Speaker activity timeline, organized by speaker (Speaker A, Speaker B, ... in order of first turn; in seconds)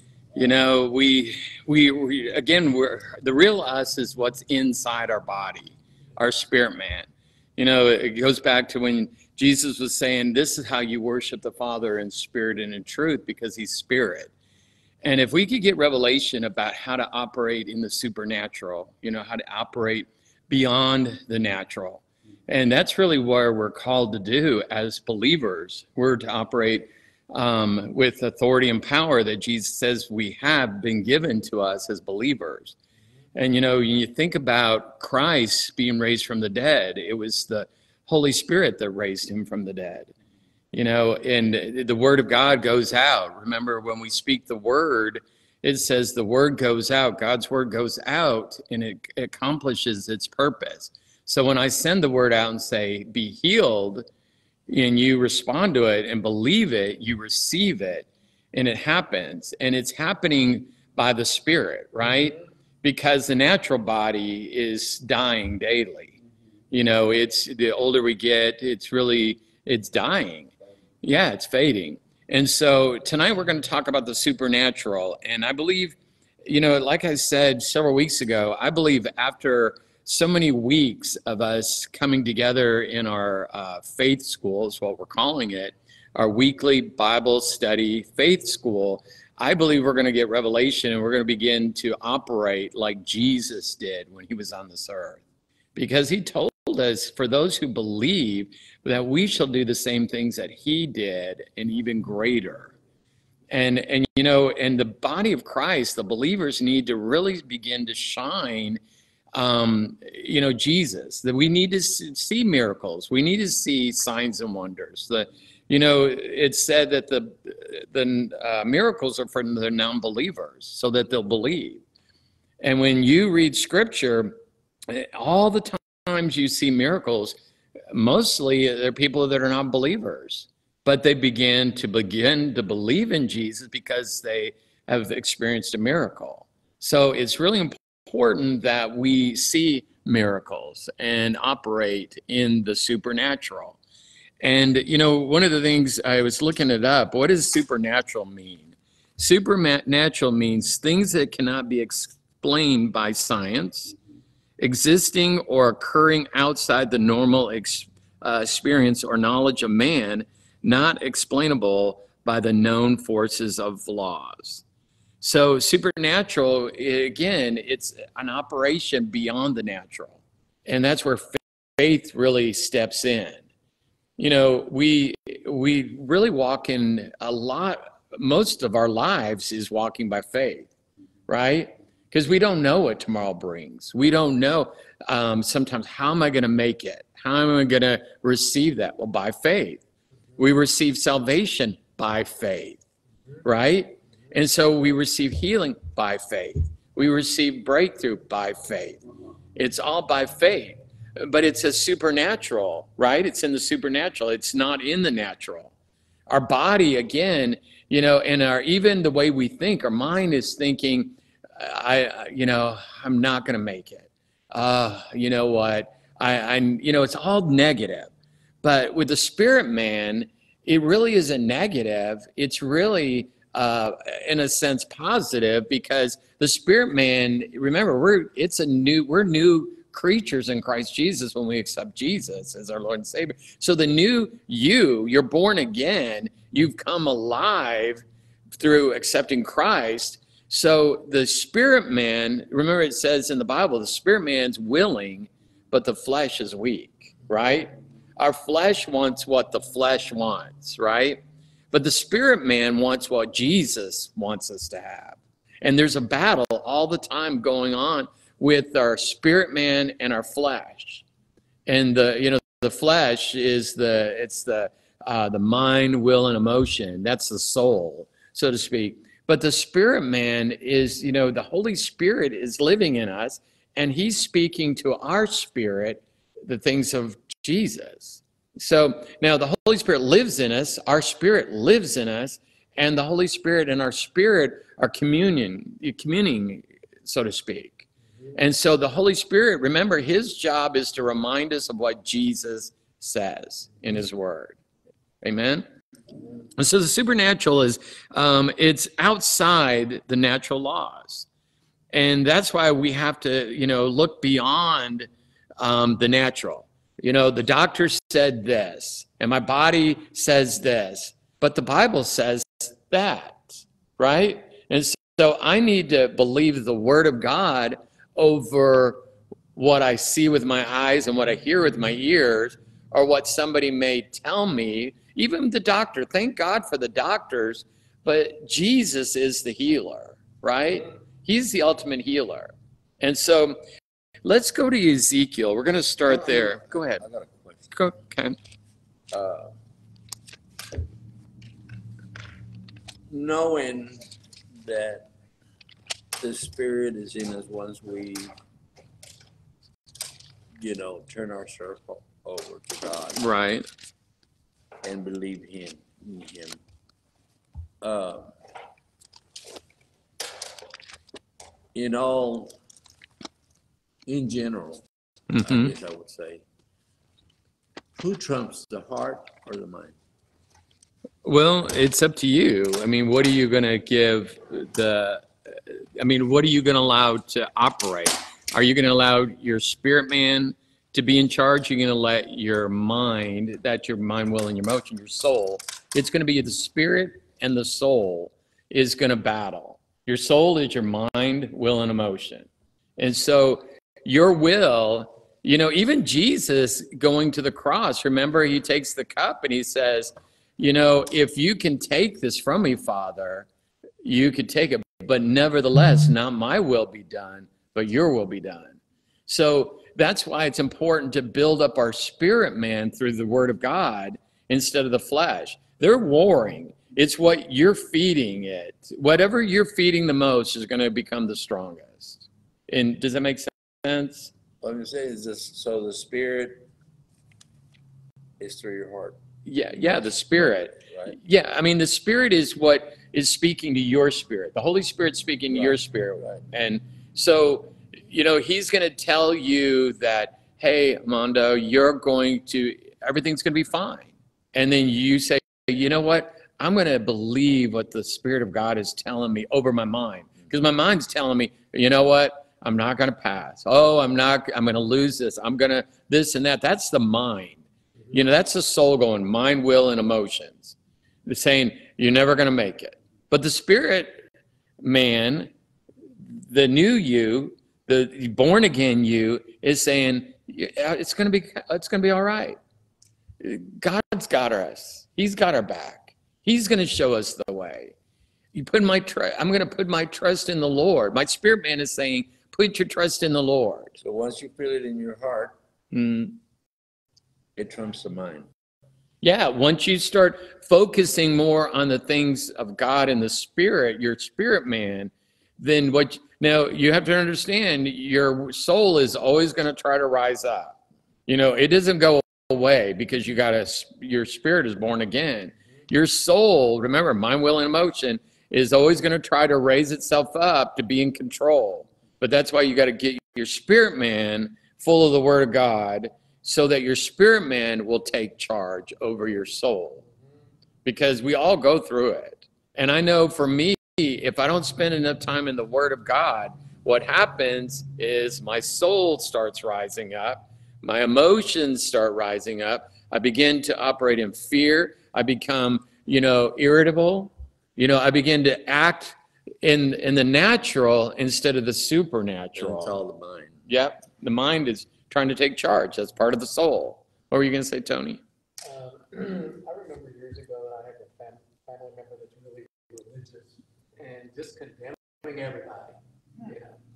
Speaker A: 0.3-14.3, 15.0-32.7, 33.4-40.1, 40.7-54.0, 54.7-66.2, 66.7-70.5, 71.0-95.2, 95.7-102.7, 103.5-108.8, 109.3-121.8, 122.6-124.4, 124.9-127.4, 127.9-143.8, 144.4-153.9, 154.6-164.6, 165.2-173.4, 174.2-180.7, 181.3-189.8, 190.4-192.8, 193.4-199.0, 199.5-205.7, 206.3-218.1, 218.6-238.0, 238.6-261.0, 261.6-294.6, 295.2-295.6, 296.6-301.3, 301.9-305.1, 305.6-319.0, 319.5-333.6, 334.2-337.0, 337.7-338.4, 353.1-353.6, 365.3-365.7, 371.2-403.5, 404.0-424.3, 429.4-457.6, 458.1-460.7, 461.2-464.3, 464.8-465.5, 466.4-472.6, 473.4-477.9, 478.5-483.9, 485.9-486.4, 489.2-500.7, 501.3-520.0, 520.8-543.0, 543.7-548.2
Speaker B: 336.2-337.7, 339.1-339.5, 343.1-344.1, 344.6-345.1, 346.2-348.3, 350.6-353.2, 354.8-356.6, 357.8-358.3, 361.7-362.5, 364.1-364.8, 365.4-366.4, 368.0-369.9, 424.6-426.7, 428.4-429.2, 435.5-436.4, 484.0-485.5, 487.6-488.5, 542.5-543.6
Speaker C: 548.6-556.8